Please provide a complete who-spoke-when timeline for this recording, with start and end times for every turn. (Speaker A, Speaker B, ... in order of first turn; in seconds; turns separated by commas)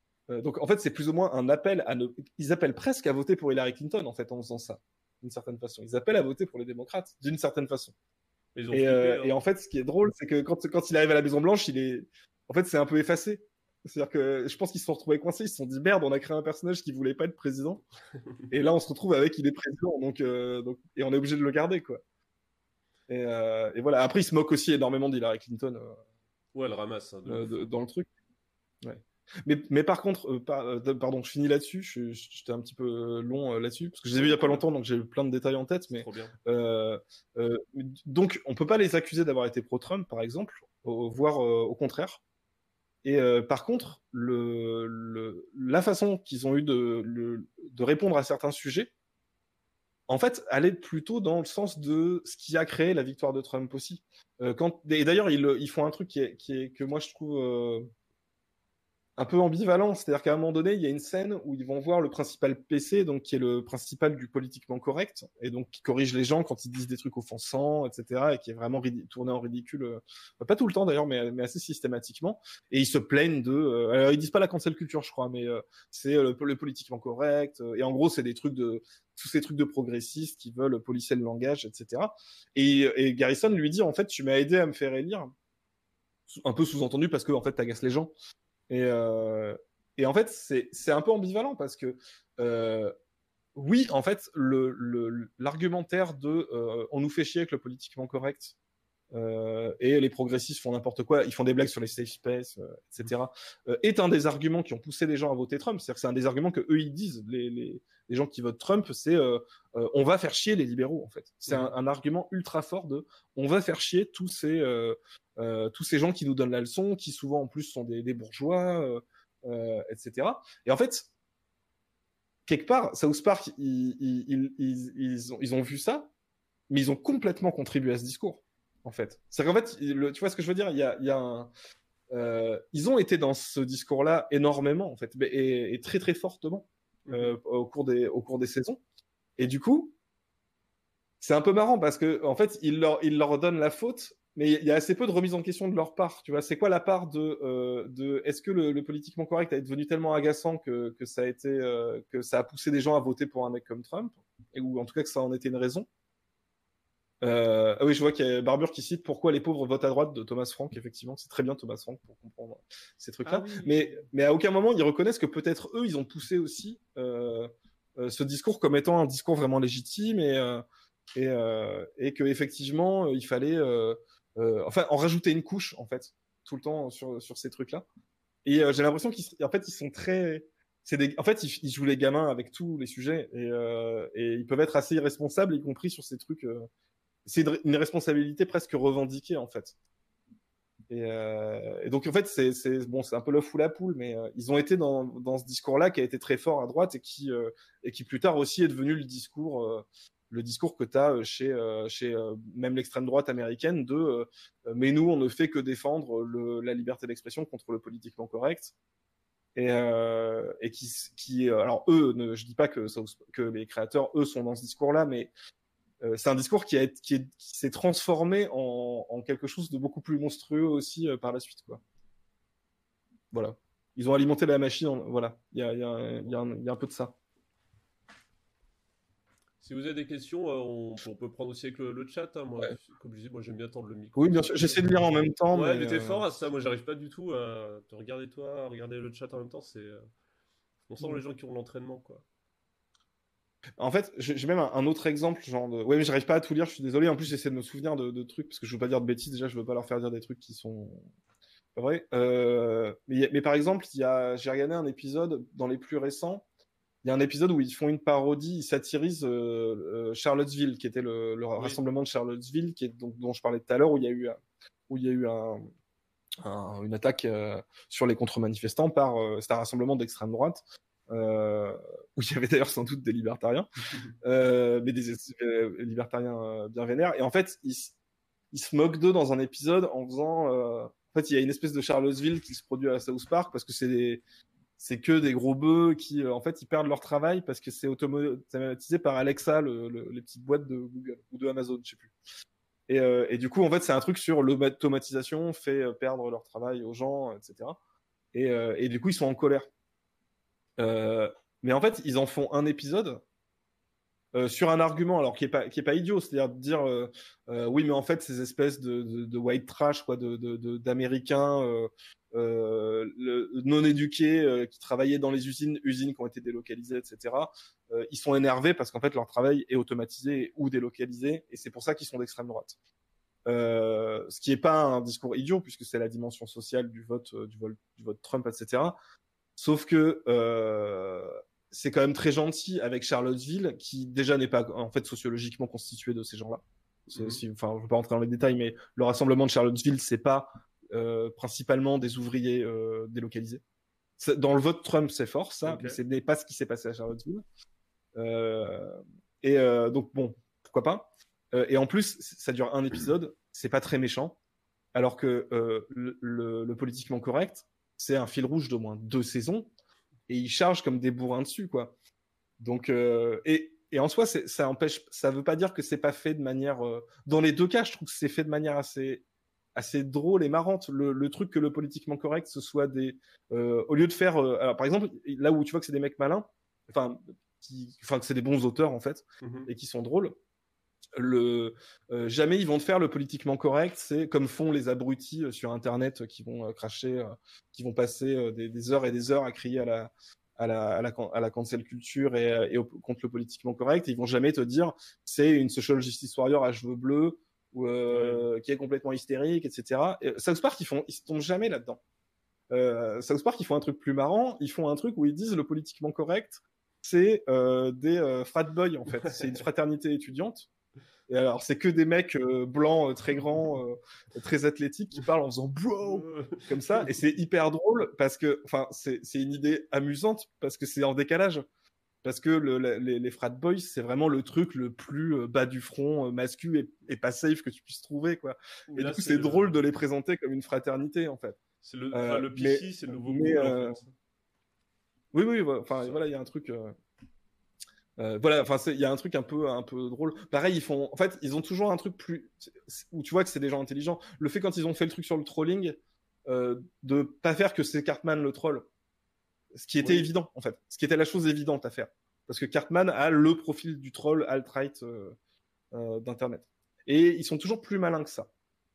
Speaker A: 0.3-8.0, Speaker B: 8.6-9.4, Speaker A: 8.7-17.8, Speaker A: 18.5-22.0, Speaker A: 23.1-26.0, Speaker B: 26.6-27.6, Speaker A: 27.3-28.1, Speaker A: 28.8-42.2, Speaker B: 34.2-34.7, Speaker B: 35.9-36.3, Speaker A: 43.0-48.9, Speaker A: 50.1-57.9, Speaker A: 59.2-85.3, Speaker A: 86.3-88.1, Speaker A: 88.7-92.9, Speaker A: 93.5-98.5, Speaker A: 99.1-121.1, Speaker A: 122.5-126.1, Speaker A: 126.7-131.5, Speaker A: 132.1-138.8, Speaker B: 137.1-137.4, Speaker A: 139.4-139.9, Speaker A: 141.2-155.9, Speaker A: 157.2-177.9, Speaker B: 163.2-164.1, Speaker A: 178.4-186.7, Speaker A: 187.2-189.8, Speaker A: 190.9-208.7, Speaker A: 209.6-215.3, Speaker A: 216.0-221.8, Speaker A: 223.3-227.1, Speaker B: 229.6-234.9, Speaker A: 234.2-236.3, Speaker B: 235.5-240.1, Speaker B: 240.9-242.2, Speaker A: 243.8-251.1, Speaker A: 251.8-256.4, Speaker A: 257.0-265.7, Speaker A: 266.4-273.7, Speaker A: 274.2-277.9, Speaker A: 278.5-284.2, Speaker A: 284.8-292.1, Speaker A: 292.9-297.8, Speaker A: 298.3-299.7, Speaker A: 300.8-303.2, Speaker A: 304.3-322.8, Speaker A: 323.5-329.0, Speaker A: 329.6-336.6, Speaker B: 337.1-337.4, Speaker A: 337.1-343.6, Speaker A: 344.2-347.4, Speaker B: 345.6-346.0, Speaker A: 348.2-354.4, Speaker A: 354.9-359.7, Speaker A: 360.3-361.9, Speaker A: 362.6-369.2, Speaker A: 369.8-380.4, Speaker B: 379.4-379.7, Speaker A: 381.1-402.0, Speaker B: 398.1-398.5, Speaker A: 402.7-410.7, Speaker B: 409.2-409.5, Speaker A: 411.3-421.6, Speaker B: 416.0-417.1, Speaker A: 422.2-431.6, Speaker B: 428.9-429.8, Speaker B: 431.8-434.1, Speaker A: 432.1-434.0, Speaker A: 435.3-436.9, Speaker A: 438.2-448.9, Speaker A: 449.7-455.4, Speaker B: 450.0-450.3, Speaker A: 455.9-458.5